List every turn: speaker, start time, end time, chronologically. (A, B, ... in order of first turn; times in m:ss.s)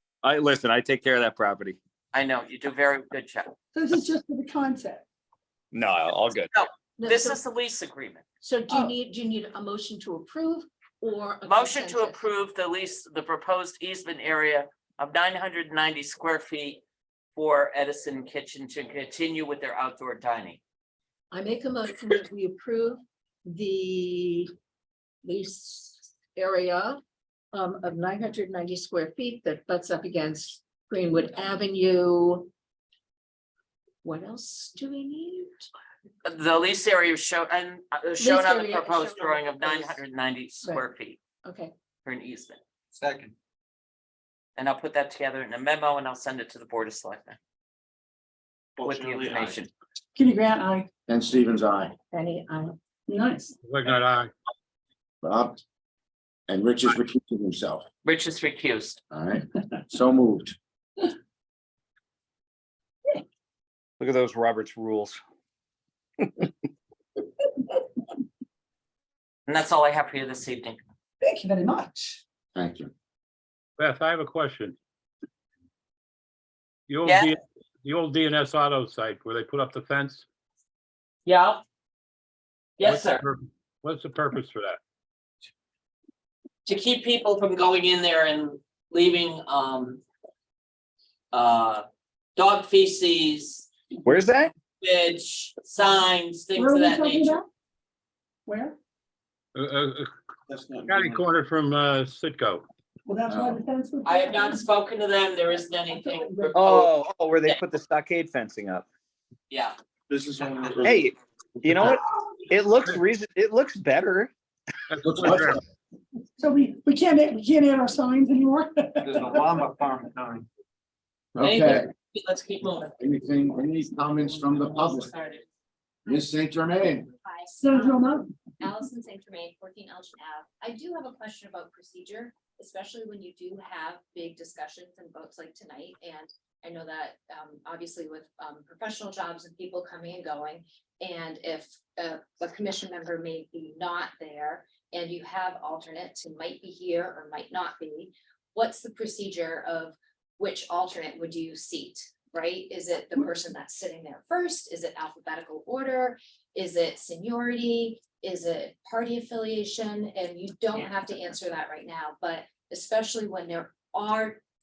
0:00.2-0:01.8 A
0:02.1-0:03.5 B
0:03.7-0:05.0 C
0:05.7-0:06.5 A
0:06.5-0:08.2 B
0:07.0-0:07.4 D
0:08.4-0:12.1 D
0:11.4-0:16.8 B
0:17.4-0:20.6 B
0:21.3-0:24.5 D
0:25.2-0:27.0 D
0:27.5-0:32.5 D
0:34.0-0:35.7 D
0:36.2-0:41.2 B
0:38.2-0:39.9 D
0:41.4-0:41.7 D
0:42.0-0:42.6 B
0:43.0-0:43.3 E
0:44.6-0:47.4 B
0:48.8-0:49.6 E
0:48.8-0:49.7 B
0:50.1-0:50.9 C
0:51.1-0:51.9 F
0:52.2-0:52.6 D
0:53.1-0:53.6 C
0:53.6-0:54.3 G
0:55.2-0:55.6 F
0:56.5-0:57.8 F
0:58.0-0:59.0 B
0:59.1-1:00.6 F
1:04.0-1:05.2 A
1:09.5-1:10.8 B
1:11.2-1:12.2 C
1:12.5-1:12.9 F
1:13.8-1:14.8 G
1:16.9-1:20.2 G
1:17.0-1:17.3 B
1:21.2-1:21.6 B
1:22.8-1:23.2 B
1:22.8-1:24.8 G
1:26.6-1:30.0 B
1:31.3-1:31.8 B
1:32.4-1:33.7 B
1:34.0-1:34.5 A
1:34.8-1:37.4 B
1:36.5-1:37.5 C
1:38.4-1:38.8 C
1:39.5-1:40.1 G
1:40.5-1:41.2 E
1:40.8-1:42.6 G
1:43.0-1:44.6 C
1:43.3-1:43.6 F
1:44.0-1:47.6 B
1:45.9-1:46.6 C
1:46.5-1:48.9 A
1:49.5-1:49.7 B
1:50.1-1:51.1 E
1:50.8-1:54.3 A
1:54.9-1:55.6 G
1:55.1-1:55.5 F
1:56.4-1:59.5 C
1:59.0-2:00.4 E
2:01.3-2:01.9 F
2:01.4-2:03.0 B
2:03.0-2:05.1 F
2:04.2-2:05.4 B
2:06.1-2:07.1 F
2:07.2-2:44.4 H
2:07.5-2:08.3 C